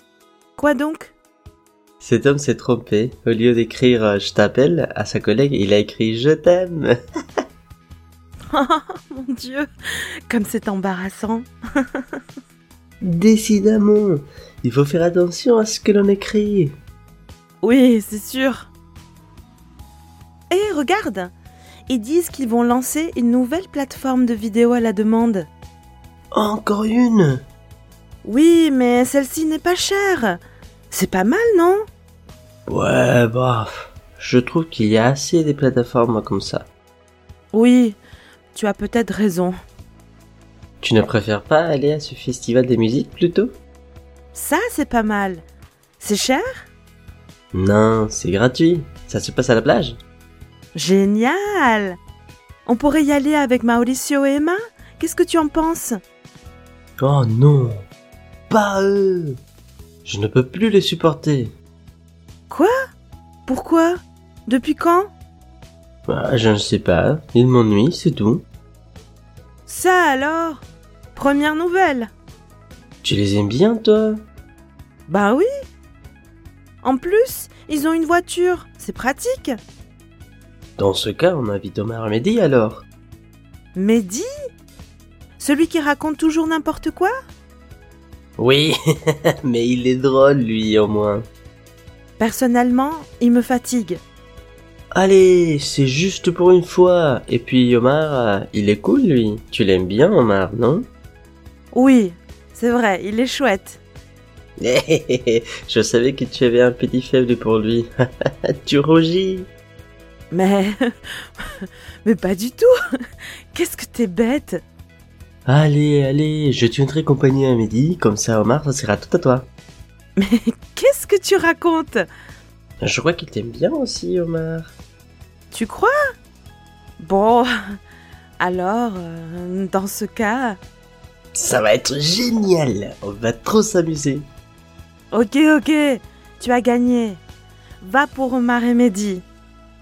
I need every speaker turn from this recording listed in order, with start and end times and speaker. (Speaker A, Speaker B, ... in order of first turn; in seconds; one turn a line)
Speaker A: 0.6-1.1
Speaker B: 2.0-6.9
Speaker A: 8.5-9.7
Speaker A: 10.3-12.0
Speaker B: 13.0-16.7
Speaker A: 17.6-18.7
Speaker A: 20.5-21.3
Speaker A: 21.9-25.5
Speaker B: 26.3-27.4
Speaker A: 28.2-30.4
Speaker A: 30.9-31.8
Speaker B: 32.7-36.7
Speaker A: 37.5-38.0
Speaker A: 38.5-39.5
Speaker B: 40.8-43.5
Speaker A: 44.3-45.4
Speaker A: 46.0-46.7
Speaker B: 47.5-50.0
Speaker A: 50.7-52.0
Speaker A: 52.6-56.0
Speaker B: 57.0-57.8
Speaker B: 58.5-59.4
Speaker B: 60.0-61.5
Speaker A: 63.5-65.1
Speaker B: 66.1-68.4
Speaker A: 69.7-70.6
Speaker A: 71.2-72.1
Speaker B: 73.0-74.2
Speaker A: 75.1-75.5
Speaker A: 76.8-79.5
Speaker B: 80.8-82.8
Speaker A: 83.7-84.2
Speaker A: 85.4-87.1
Speaker B: 88.4-91.2
Speaker A: 92.2-94.0
Speaker B: 94.9-100.9
Speaker A: 101.7-103.8
Speaker B: 104.6-107.9
Speaker B: 108.6-109.5
Speaker A: 110.3-110.8
Speaker A: 111.4-112.7
Speaker A: 113.5-114.6
Speaker B: 115.5-119.5
Speaker A: 120.2-122.0
Speaker B: 122.8-124.7
Speaker A: 125.5-125.9
Speaker A: 127.0-127.5
Speaker A: 128.4-130.6
Speaker B: 131.3-134.2
Speaker A: 135.1-137.2
Speaker A: 137.8-139.2